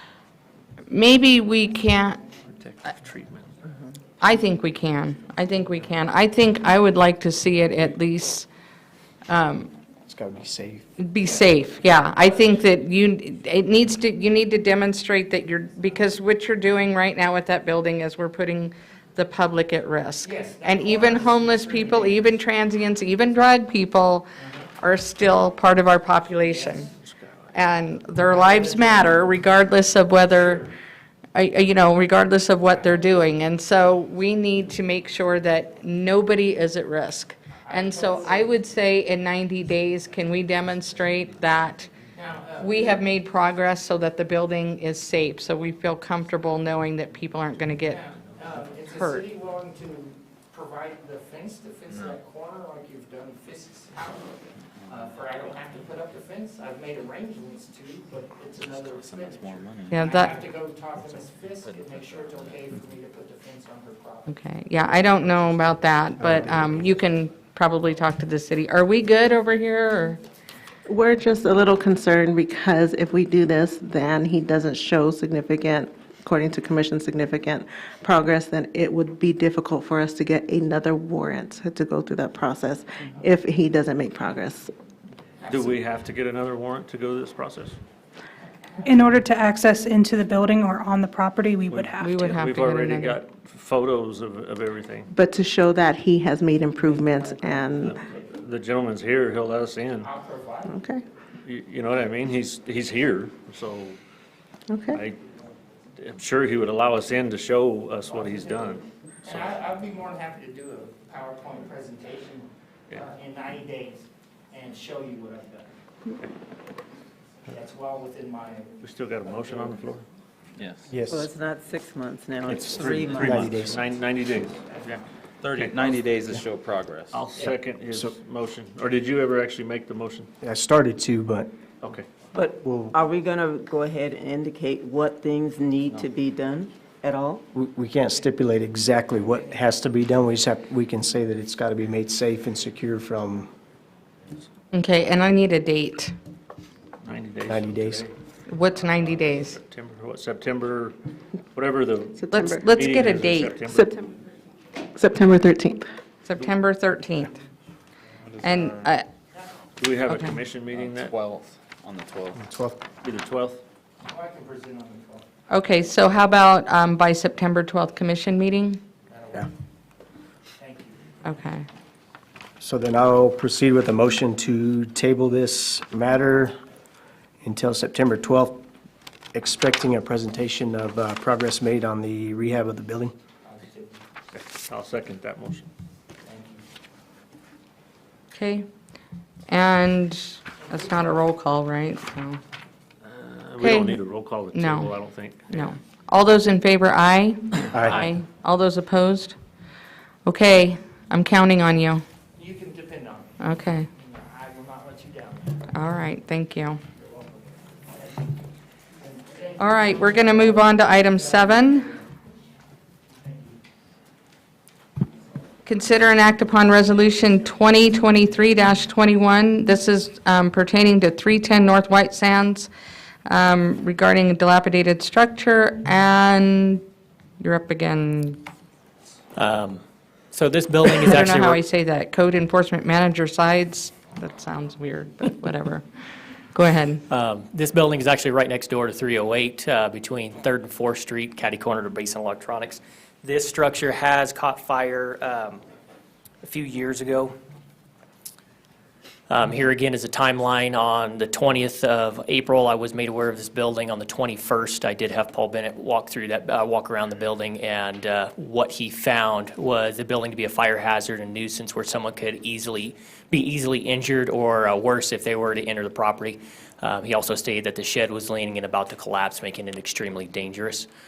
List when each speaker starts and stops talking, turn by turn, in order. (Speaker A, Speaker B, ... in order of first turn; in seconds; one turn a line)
Speaker A: 0.9-2.2
Speaker B: 2.5-3.6
Speaker A: 4.2-8.5
Speaker A: 9.3-9.7
Speaker C: 10.1-10.9
Speaker A: 11.0-26.9
Speaker D: 12.2-12.7
Speaker D: 20.2-22.4
Speaker D: 24.4-24.7
Speaker D: 26.3-26.9
Speaker B: 27.0-27.6
Speaker A: 27.5-30.7
Speaker D: 28.3-29.4
Speaker D: 30.2-30.6
Speaker A: 31.3-41.9
Speaker D: 32.7-33.3
Speaker D: 37.6-38.6
Speaker D: 42.1-43.1
Speaker A: 42.6-48.0
Speaker D: 47.9-64.4
Speaker A: 48.8-49.3
Speaker E: 51.9-52.2
Speaker E: 54.8-55.1
Speaker E: 58.6-60.5
Speaker A: 59.9-60.4
Speaker E: 61.1-62.8
Speaker A: 64.3-70.2
Speaker C: 66.2-66.7
Speaker E: 66.7-66.9
Speaker F: 70.9-84.7
Speaker D: 85.5-85.8
Speaker B: 85.5-87.8
Speaker G: 88.8-92.3
Speaker B: 91.7-95.1
Speaker A: 92.0-93.2
Speaker F: 95.1-97.9
Speaker D: 97.6-97.9
Speaker B: 97.8-100.1
Speaker D: 100.0-100.8
Speaker F: 100.7-101.0
Speaker B: 101.5-104.0
Speaker F: 104.7-105.0
Speaker B: 104.9-105.2
Speaker B: 106.0-109.5
Speaker D: 108.2-115.7
Speaker D: 117.4-119.8
Speaker B: 118.8-120.0
Speaker E: 120.6-120.9
Speaker C: 120.9-121.3
Speaker H: 121.1-123.6
Speaker B: 122.5-125.0
Speaker E: 122.6-123.7
Speaker C: 123.1-123.8
Speaker E: 125.4-127.2
Speaker B: 125.5-126.0
Speaker B: 127.1-130.3
Speaker C: 130.4-131.5
Speaker B: 131.8-132.1
Speaker H: 132.3-137.4
Speaker C: 132.6-132.9
Speaker C: 137.5-143.5
Speaker A: 144.7-146.1
Speaker B: 147.0-148.1
Speaker C: 147.5-148.1
Speaker A: 148.5-149.6
Speaker B: 148.8-150.9
Speaker B: 151.5-153.9
Speaker F: 152.2-152.6
Speaker A: 152.3-153.6
Speaker F: 153.7-154.0
Speaker F: 154.9-155.9
Speaker A: 156.2-157.4
Speaker E: 158.2-158.9
Speaker A: 158.4-159.1
Speaker B: 159.8-161.1
Speaker A: 160.1-160.4
Speaker E: 160.7-162.5
Speaker C: 162.4-162.8
Speaker B: 163.0-163.6
Speaker D: 164.0-165.2
Speaker A: 165.5-168.8
Speaker D: 169.1-169.5
Speaker D: 170.6-171.0
Speaker A: 171.2-171.7
Speaker C: 172.6-176.5
Speaker C: 177.4-178.6
Speaker C: 179.3-183.1
Speaker D: 183.4-184.0
Speaker B: 184.3-185.7
Speaker D: 186.2-186.6
Speaker A: 188.3-188.7
Speaker A: 189.5-192.4
Speaker D: 190.6-191.2
Speaker B: 193.0-195.7
Speaker A: 193.6-194.0
Speaker A: 194.5-195.0
Speaker A: 195.5-199.3
Speaker C: 197.7-198.0
Speaker A: 200.2-202.0
Speaker D: 202.3-205.7
Speaker A: 203.4-203.9
Speaker A: 205.7-206.8
Speaker D: 206.9-208.4
Speaker D: 209.0-212.1
Speaker A: 209.6-211.9
Speaker D: 213.1-213.6
Speaker A: 215.6-222.7
Speaker A: 223.2-226.8
Speaker A: 227.4-228.4
Speaker I: 229.3-231.6
Speaker A: 231.0-235.8
Speaker A: 236.5-237.0
Speaker I: 237.1-245.6
Speaker I: 246.4-247.3
Speaker I: 249.3-270.9